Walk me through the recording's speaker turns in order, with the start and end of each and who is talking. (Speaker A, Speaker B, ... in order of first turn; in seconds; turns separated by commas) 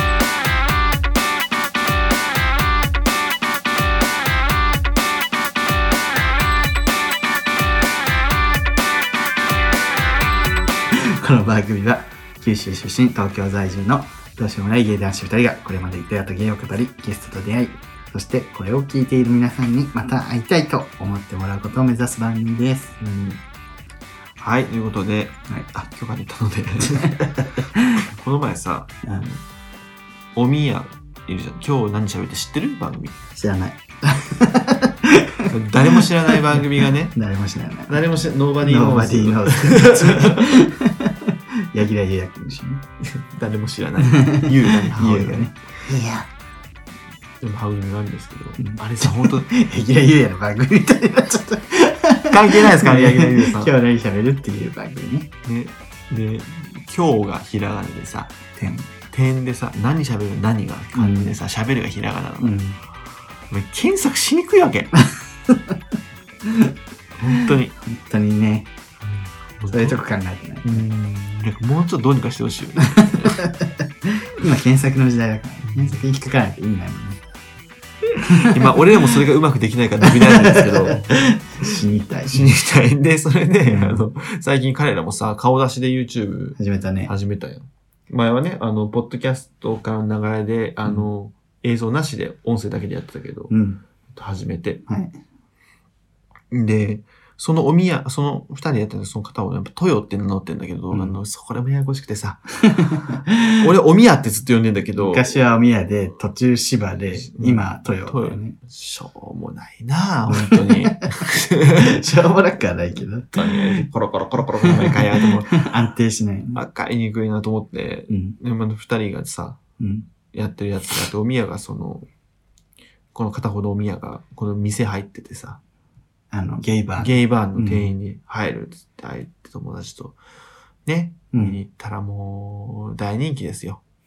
Speaker A: 10.9-23.0, Speaker B: 23.0-23.4, Speaker B: 24.4-27.3, Speaker A: 26.8-28.0, Speaker B: 27.9-29.4, Speaker A: 29.0-29.3, Speaker B: 30.3-33.2, Speaker A: 33.4-38.0, Speaker B: 35.5-37.1, Speaker B: 37.9-40.6, Speaker A: 38.6-42.8, Speaker B: 43.0-45.5, Speaker A: 44.0-46.3, Speaker B: 47.4-49.5, Speaker A: 48.6-55.3, Speaker B: 52.3-53.7, Speaker B: 55.4-58.4, Speaker A: 58.5-58.9, Speaker B: 59.1-62.5, Speaker A: 60.9-61.4, Speaker A: 62.4-62.8, Speaker B: 63.5-65.0, Speaker A: 65.5-65.7, Speaker A: 66.4-66.7, Speaker B: 67.2-67.8, Speaker A: 67.3-68.7, Speaker B: 69.0-70.0, Speaker A: 69.7-70.8, Speaker B: 70.6-73.5, Speaker A: 72.8-77.2, Speaker B: 75.7-76.0, Speaker B: 78.0-81.2, Speaker A: 78.2-79.2, Speaker A: 80.0-82.5, Speaker B: 82.3-93.5, Speaker A: 83.7-84.0, Speaker A: 86.6-87.1, Speaker A: 93.5-93.8, Speaker B: 94.1-94.8, Speaker A: 94.9-95.1, Speaker B: 96.5-102.9, Speaker A: 102.7-103.5, Speaker B: 103.5-105.4, Speaker A: 105.0-108.5, Speaker B: 107.1-112.0, Speaker A: 110.3-113.8, Speaker B: 113.3-115.6, Speaker A: 114.6-116.6, Speaker B: 116.5-119.6, Speaker A: 118.1-118.3, Speaker A: 119.8-120.0, Speaker B: 120.3-122.0, Speaker B: 123.1-125.6, Speaker A: 126.3-127.9, Speaker B: 127.0-130.2, Speaker B: 130.8-133.8